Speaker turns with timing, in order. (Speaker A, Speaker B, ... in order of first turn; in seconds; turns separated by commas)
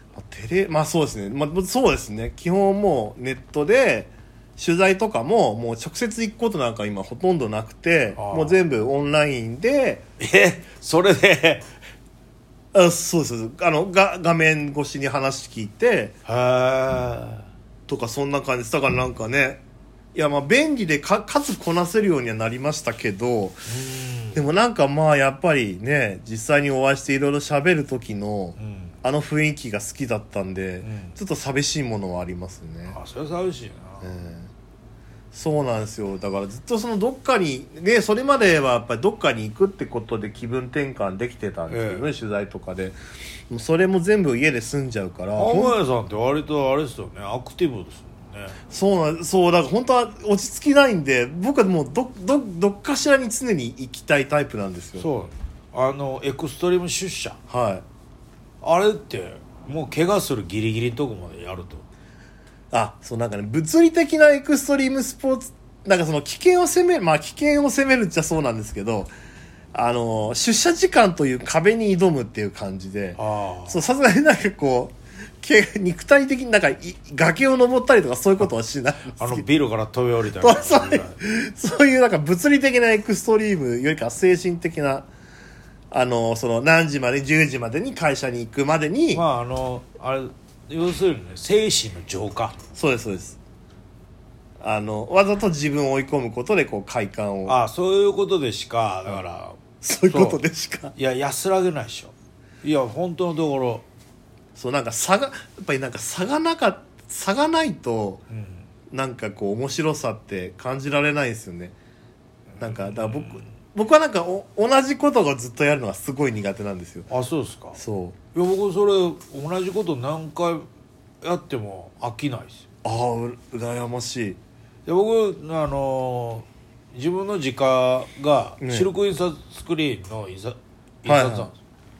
Speaker A: 0.2-10.0, Speaker B: 8.2-8.6, Speaker B: 10.2-11.7, Speaker A: 12.7-16.2, Speaker B: 16.3-17.5, Speaker A: 17.9-19.6, Speaker A: 20.1-23.6, Speaker B: 23.7-24.4, Speaker A: 24.3-33.0, Speaker B: 28.6-28.9, Speaker B: 30.8-31.2, Speaker B: 32.9-34.1, Speaker A: 34.0-34.5, Speaker A: 35.3-43.0, Speaker B: 41.7-42.1, Speaker A: 43.5-45.8, Speaker B: 45.4-48.6, Speaker A: 48.7-55.1, Speaker B: 55.0-57.4, Speaker A: 57.5-57.8, Speaker B: 58.6-61.8, Speaker A: 62.7-69.1, Speaker A: 69.7-79.5, Speaker B: 73.2-73.8, Speaker B: 79.2-81.2, Speaker A: 80.4-85.1, Speaker A: 85.9-89.2, Speaker B: 89.1-92.6, Speaker A: 92.7-93.4, Speaker A: 94.6-97.6, Speaker B: 97.5-99.6, Speaker A: 99.8-100.9, Speaker B: 100.1-100.4, Speaker B: 101.0-103.8, Speaker A: 104.5-108.2, Speaker B: 108.3-108.6, Speaker A: 108.9-111.8, Speaker B: 112.5-113.5, Speaker A: 112.6-117.1, Speaker B: 117.1-117.8, Speaker A: 117.8-118.2, Speaker B: 118.3-120.7, Speaker B: 121.2-122.7, Speaker A: 122.8-124.4, Speaker B: 124.9-131.6, Speaker A: 128.6-128.9, Speaker A: 131.1-131.5